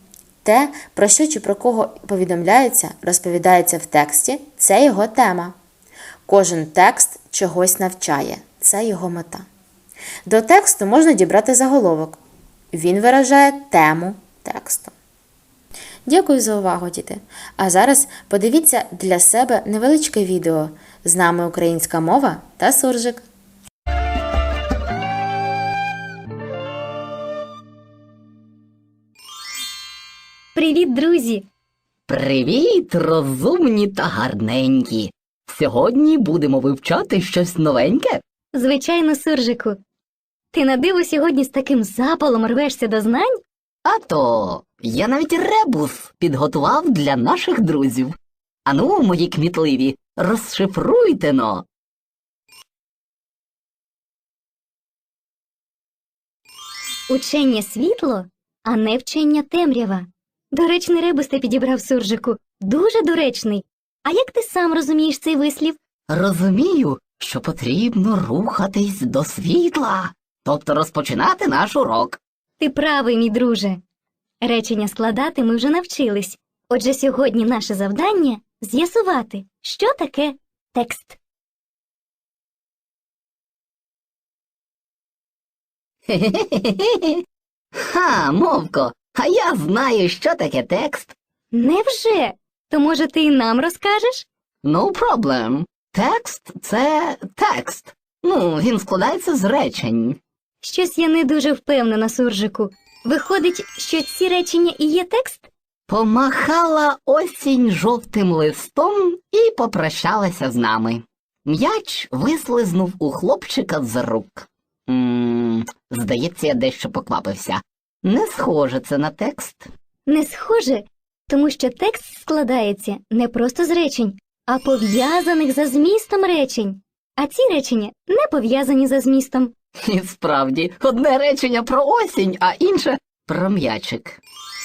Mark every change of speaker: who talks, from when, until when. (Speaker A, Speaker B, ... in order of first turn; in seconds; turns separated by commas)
Speaker A: 0.4-5.5, Speaker A: 6.3-9.4, Speaker A: 10.2-12.2, Speaker A: 12.7-14.9, Speaker A: 16.1-23.3, Speaker B: 30.5-31.4, Speaker C: 32.1-38.2, Speaker B: 38.5-39.8, Speaker B: 40.5-43.4, Speaker C: 43.8-51.6, Speaker B: 57.1-65.8, Speaker C: 66.1-72.2, Speaker B: 72.6-73.8, Speaker B: 74.4-81.2, Speaker C: 86.1-87.2, Speaker C: 87.8-91.1, Speaker B: 91.5-94.2, Speaker C: 94.6-100.2, Speaker B: 100.6-105.5, Speaker C: 105.9-119.7, Speaker B: 120.1-129.5, Speaker C: 129.8-134.2